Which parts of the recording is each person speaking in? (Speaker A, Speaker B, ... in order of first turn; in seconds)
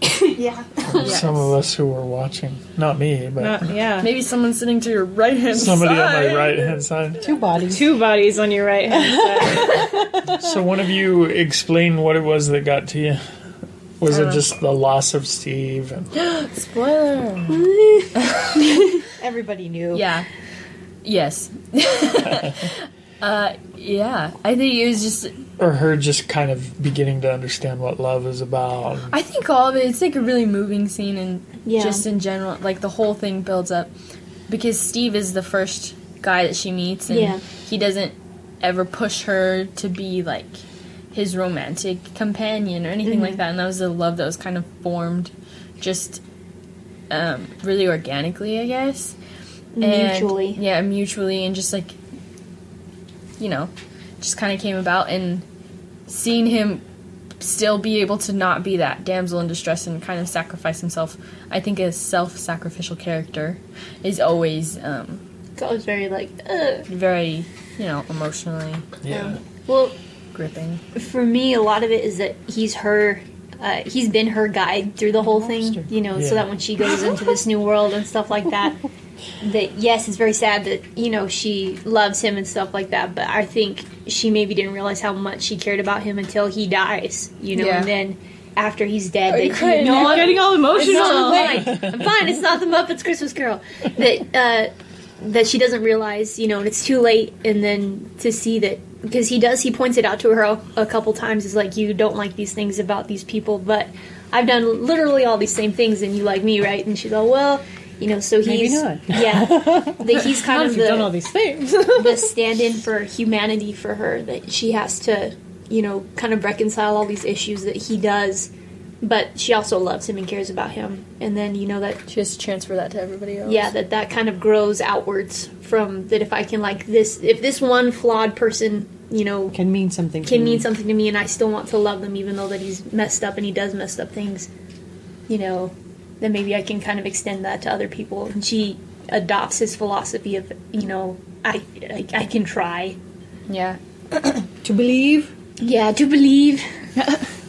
Speaker A: 0.1-1.2, 17.5-18.1, 31.6-32.0, 37.1-37.4, 43.0-43.4, 49.8-50.6, 65.6-66.9, 69.1-70.0, 70.9-78.8, 79.4-111.2, 111.9-122.0, 123.5-129.6, 130.2-134.5, 135.3-143.0, 145.6-146.7
Speaker B: 0.8-3.8, 5.5-7.3, 10.2-13.2, 14.0-16.1, 22.3-22.7, 25.6-29.1, 69.0-69.4, 76.2-76.5
Speaker C: 1.0-1.5, 4.0-6.7, 14.1-14.4, 16.1-18.5, 19.9-20.2, 21.0-25.3, 29.1-33.9, 34.5-46.2, 47.1-49.1, 49.8-52.0, 53.4-55.4, 56.1-56.8, 57.4-65.2, 66.9-68.8, 70.3-70.8, 87.5-87.9, 89.3-91.5, 122.1-123.7, 143.5-143.8
Speaker D: 3.4-4.1, 7.7-9.8, 89.8-91.7, 110.5-111.7
Speaker E: 7.2-8.0, 9.0-10.5, 19.2-20.1, 75.3-75.9, 90.9-91.5, 108.4-111.2, 129.5-130.7, 144.6-145.3